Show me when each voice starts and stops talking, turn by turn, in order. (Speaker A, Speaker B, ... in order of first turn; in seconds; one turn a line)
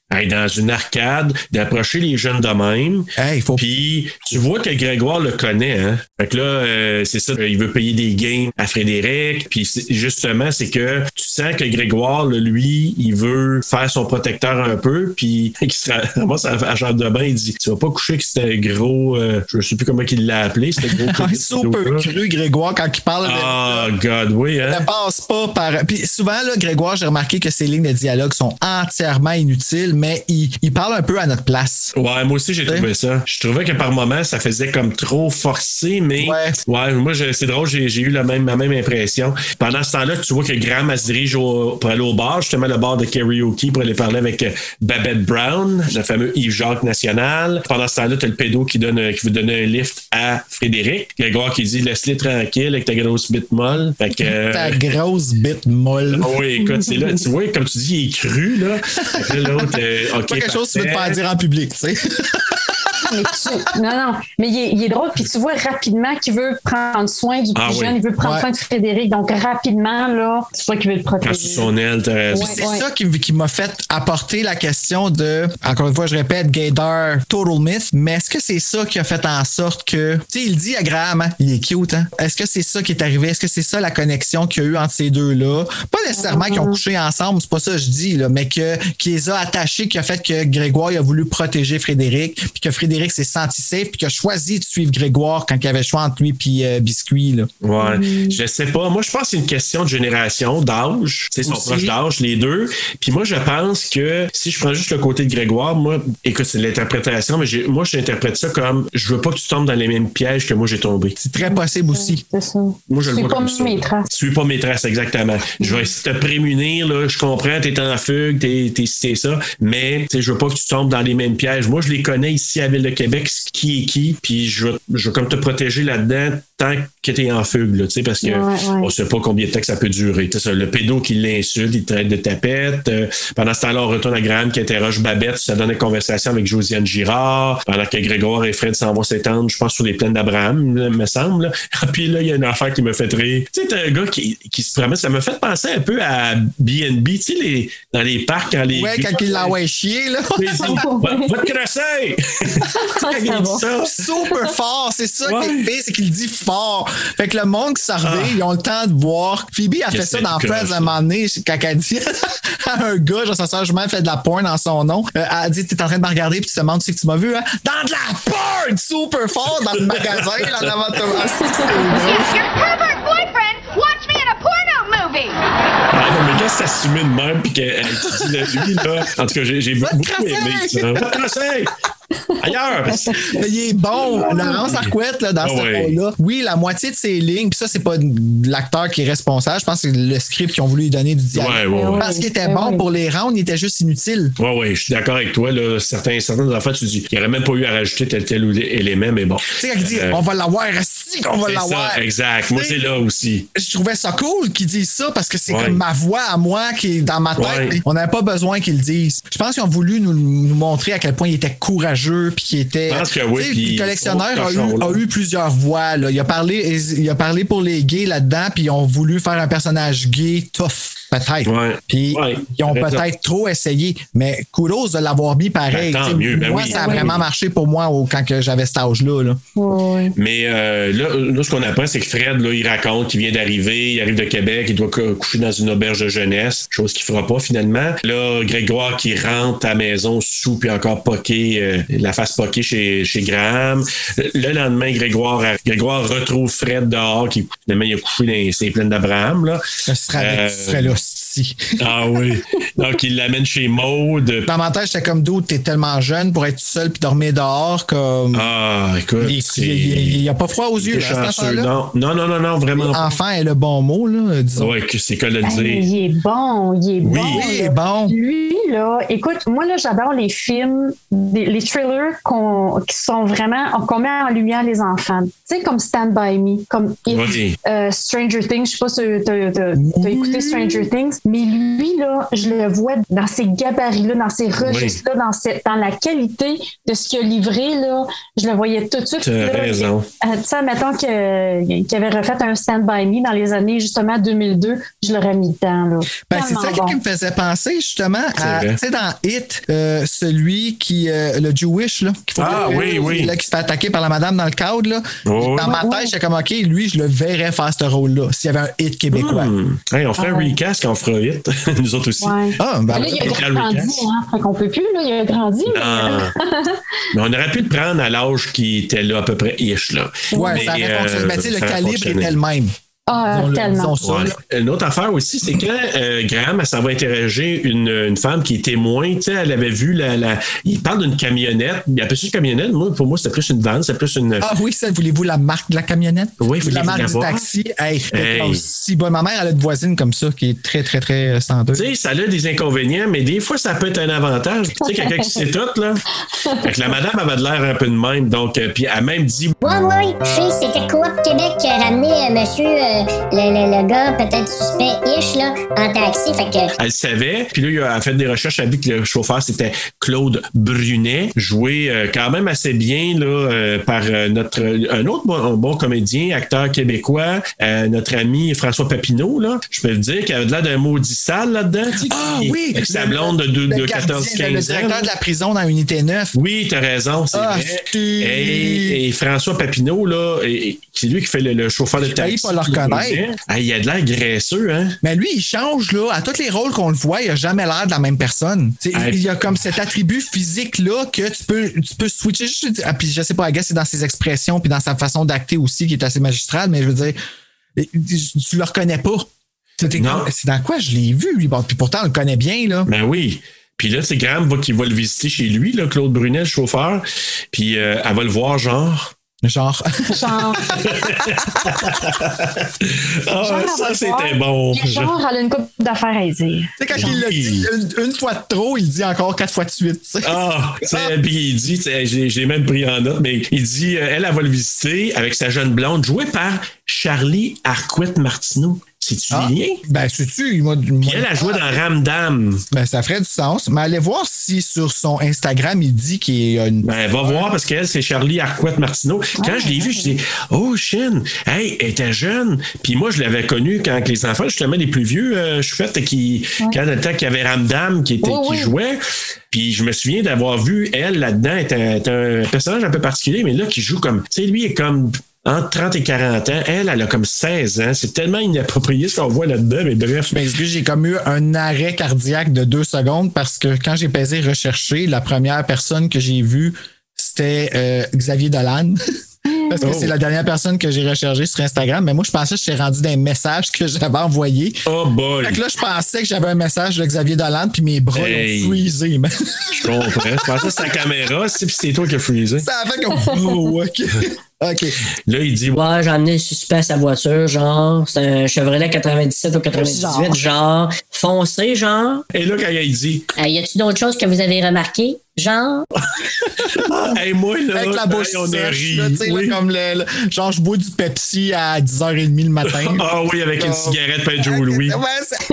Speaker A: 0.1-22.1
Speaker B: 3.2-3.6
Speaker B: 21.0-23.9
Speaker A: 23.2-24.9
Speaker B: 24.6-31.9
Speaker A: 31.9-54.9
Speaker B: 36.2-36.6
Speaker B: 54.2-56.3
Speaker A: 56.1-61.2
Speaker B: 59.1-59.7
Speaker B: 60.2-62.9
Speaker C: 63.1-71.7
Speaker A: 67.5-68.0
Speaker B: 68.2-68.5
Speaker A: 71.2-72.6
Speaker C: 72.3-72.8
Speaker B: 72.3-97.5
Speaker C: 86.1-86.8
Speaker A: 97.6-111.2
Speaker C: 97.8-98.4
Speaker B: 101.4-101.9
Speaker B: 111.2-112.2
Speaker C: 111.4-114.0
Speaker A: 112.9-149.6
Speaker C: 115.6-115.8
Speaker C: 128.2-128.9
Speaker B: 148.7-150.8
Speaker A: 150.3-154.1
Speaker C: 150.6-151.4
Speaker C: 152.7-153.6
Speaker B: 153.8-172.3
Speaker A: 155.2-155.7
Speaker A: 158.0-158.4
Speaker A: 159.9-160.9
Speaker A: 169.8-170.7
Speaker C: 171.4-172.3
Speaker D: 171.9-175.5
Speaker A: 175.9-181.7
Speaker B: 177.9-179.0
Speaker B: 179.8-181.1
Speaker A: 182.4-183.2
Speaker B: 183.2-194.3
Speaker A: 184.0-186.0
Speaker C: 184.3-184.6
Speaker A: 191.3-192.1
Speaker C: 191.7-192.8
Speaker A: 194.4-200.2
Speaker B: 199.5-202.0
Speaker A: 201.4-203.5
Speaker B: 202.5-202.9
Speaker B: 203.5-229.4
Speaker A: 205.5-205.8
Speaker A: 207.3-207.8
Speaker A: 212.9-215.0
Speaker A: 221.4-223.1
Speaker A: 225.7-227.2
Speaker C: 226.7-227.1
Speaker C: 229.6-230.1
Speaker A: 230.2-249.6
Speaker B: 249.8-251.8
Speaker A: 250.2-250.9
Speaker A: 251.8-254.5
Speaker B: 254.4-258.5
Speaker A: 258.3-260.2
Speaker B: 259.2-261.7
Speaker A: 260.8-263.1
Speaker B: 262.8-264.7
Speaker A: 264.6-265.9
Speaker C: 265.4-297.0
Speaker A: 267.0-267.4
Speaker B: 267.3-268.1
Speaker A: 277.1-277.6
Speaker B: 279.8-280.8
Speaker A: 284.6-285.0
Speaker A: 289.2-290.1
Speaker B: 296.3-309.5
Speaker A: 298.4-298.8
Speaker A: 302.4-303.3
Speaker C: 302.4-303.1
Speaker A: 305.2-305.8
Speaker C: 305.6-306.1
Speaker A: 309.1-314.1
Speaker C: 310.2-310.5
Speaker C: 312.2-316.8
Speaker B: 312.6-313.4
Speaker A: 315.7-316.3
Speaker A: 317.1-322.4
Speaker C: 320.3-320.7
Speaker B: 320.3-322.7
Speaker C: 323.1-323.9
Speaker B: 323.3-324.4
Speaker A: 324.0-334.5
Speaker B: 334.4-341.9
Speaker A: 336.4-337.5
Speaker A: 338.1-338.6
Speaker A: 341.7-349.6
Speaker C: 344.8-345.4
Speaker C: 346.3-346.6
Speaker E: 349.6-356.7
Speaker A: 356.8-375.1
Speaker B: 372.0-376.4
Speaker A: 376.3-385.0
Speaker B: 377.3-379.0
Speaker B: 382.0-383.2
Speaker B: 385.0-397.1
Speaker A: 388.9-389.2
Speaker B: 397.8-399.3
Speaker B: 399.8-402.9
Speaker A: 400.0-400.3
Speaker A: 402.9-409.1
Speaker B: 409.4-411.9
Speaker C: 410.1-410.6
Speaker A: 410.8-415.1
Speaker C: 413.4-417.1
Speaker B: 416.8-421.1
Speaker A: 416.9-417.7
Speaker A: 420.2-429.8
Speaker B: 429.3-431.8
Speaker A: 431.0-432.6
Speaker B: 432.7-437.5
Speaker A: 436.8-460.4
Speaker C: 439.4-440.1
Speaker C: 448.2-448.7
Speaker B: 460.3-469.0
Speaker C: 469.4-469.8
Speaker B: 469.7-474.8
Speaker A: 469.8-470.1
Speaker A: 474.9-475.6
Speaker B: 475.4-480.9
Speaker A: 478.1-478.8
Speaker A: 479.8-482.7
Speaker B: 482.6-485.0
Speaker A: 485.3-485.8
Speaker F: 485.7-492.2
Speaker B: 489.8-490.4
Speaker A: 492.3-493.3
Speaker F: 493.4-495.8
Speaker A: 496.2-499.6
Speaker B: 497.7-505.4
Speaker A: 502.6-505.0